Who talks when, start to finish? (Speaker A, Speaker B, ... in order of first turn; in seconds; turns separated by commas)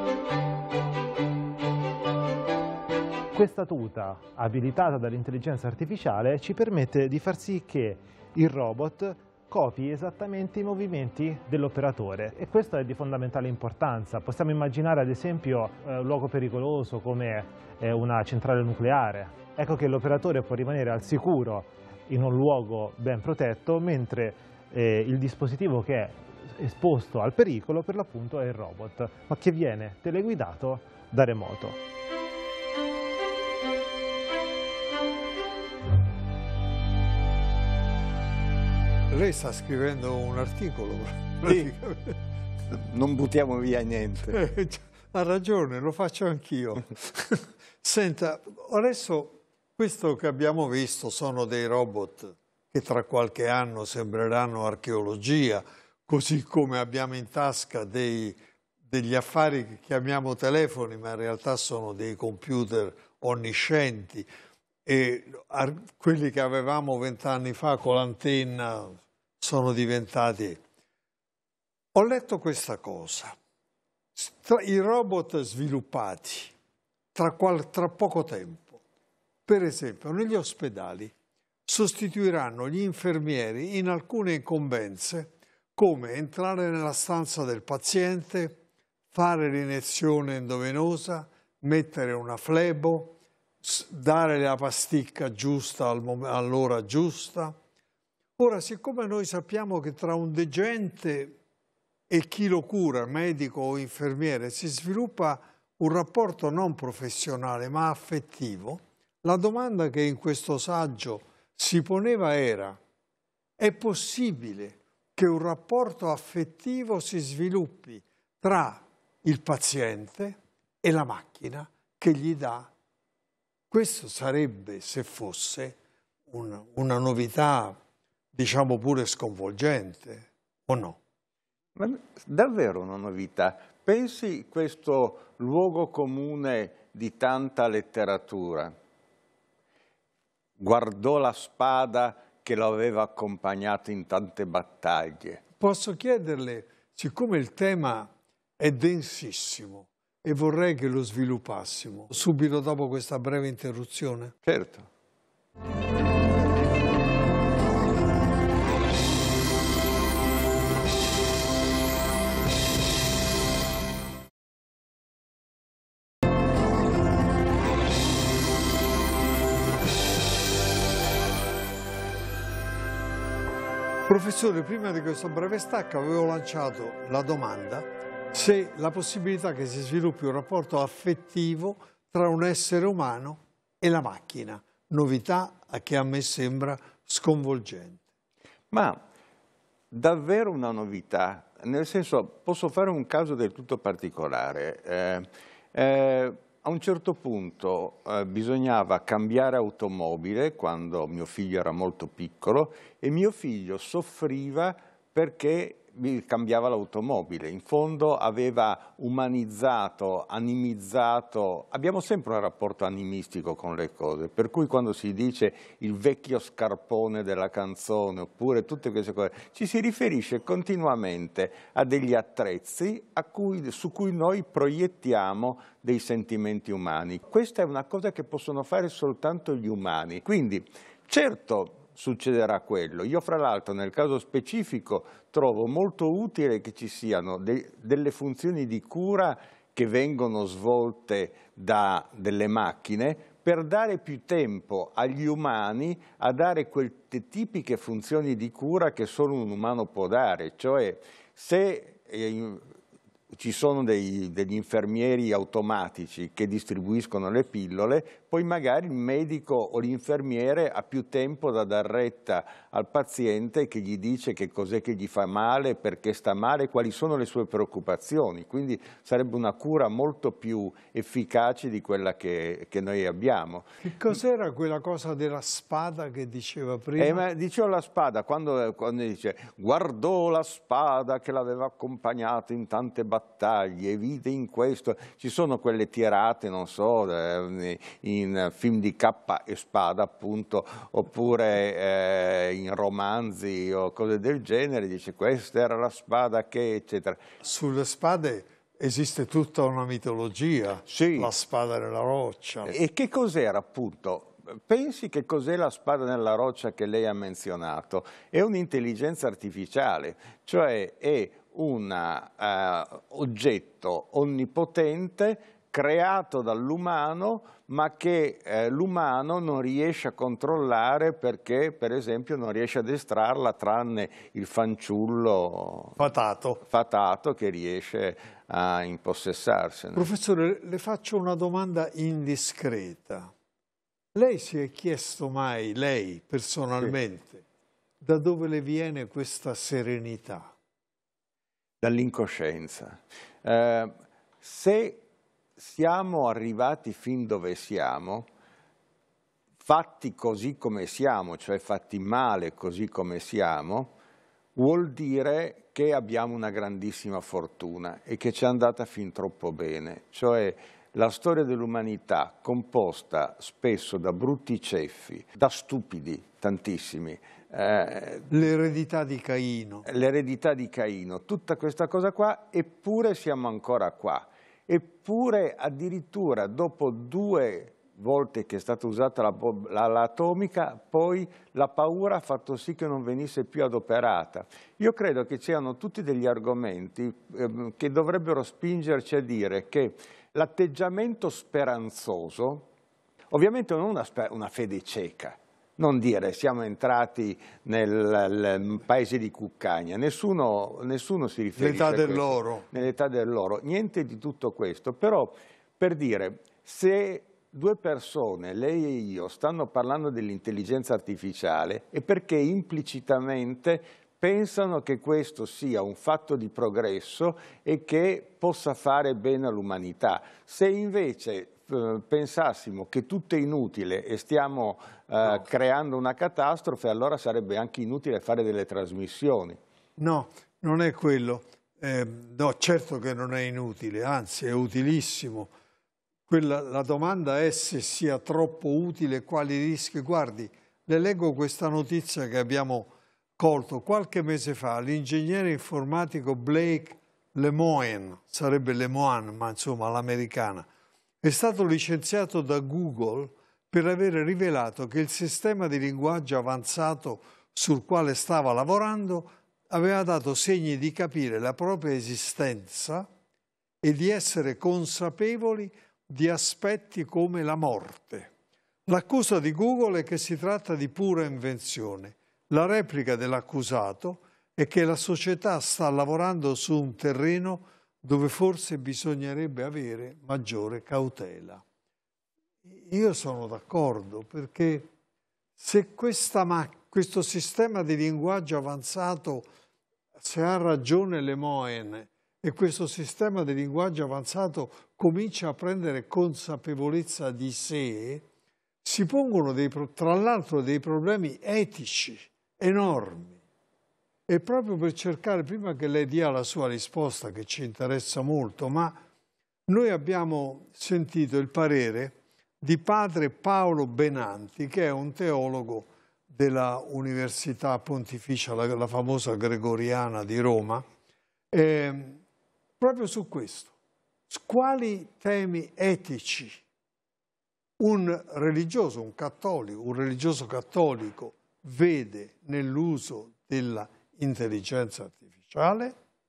Speaker A: 3.3-31.8, Speaker B: 39.1-42.2, Speaker C: 41.5-41.7, Speaker C: 42.7-44.4, Speaker B: 44.3-58.4, Speaker B: 58.9-64.3, Speaker B: 64.9-70.6, Speaker B: 71.9-73.4, Speaker B: 74.2-76.5, Speaker B: 77.2-78.8, Speaker B: 79.5-81.1, Speaker B: 81.7-88.6, Speaker B: 89.1-97.6, Speaker B: 98.4-101.4, Speaker B: 102.1-112.8, Speaker B: 113.6-122.7, Speaker B: 123.7-125.8, Speaker B: 126.3-127.8, Speaker B: 128.3-131.0, Speaker C: 131.8-138.7, Speaker C: 140.6-145.4, Speaker B: 145.6-154.3, Speaker C: 154.5-154.9, Speaker B: 174.1-188.0, Speaker C: 188.7-189.0, Speaker C: 189.9-252.7, Speaker C: 253.3-273.7, Speaker B: 273.8-277.2, Speaker C: 277.0-297.2, Speaker B: 297.4-302.8, Speaker C: 300.9-301.3, Speaker C: 302.7-326.0, Speaker B: 326.0-326.6, Speaker C: 326.7-330.1, Speaker B: 329.9-333.3, Speaker B: 334.1-337.4, Speaker B: 338.0-340.5, Speaker C: 341.8-345.0, Speaker C: 345.6-348.3, Speaker C: 349.6-353.9, Speaker C: 354.6-368.4, Speaker B: 368.3-369.9, Speaker C: 369.9-392.7, Speaker C: 393.3-429.6, Speaker B: 401.6-402.7, Speaker B: 430.0-435.5, Speaker B: 436.3-450.7, Speaker B: 451.2-463.1, Speaker B: 463.8-468.3, Speaker B: 468.9-481.6, Speaker B: 482.6-484.9, Speaker B: 485.6-489.5, Speaker B: 490.2-498.2, Speaker B: 498.8-503.4, Speaker B: 504.3-509.0, Speaker B: 509.7-520.9, Speaker B: 521.5-522.2, Speaker B: 522.8-523.7, Speaker B: 524.3-526.6, Speaker B: 527.8-536.0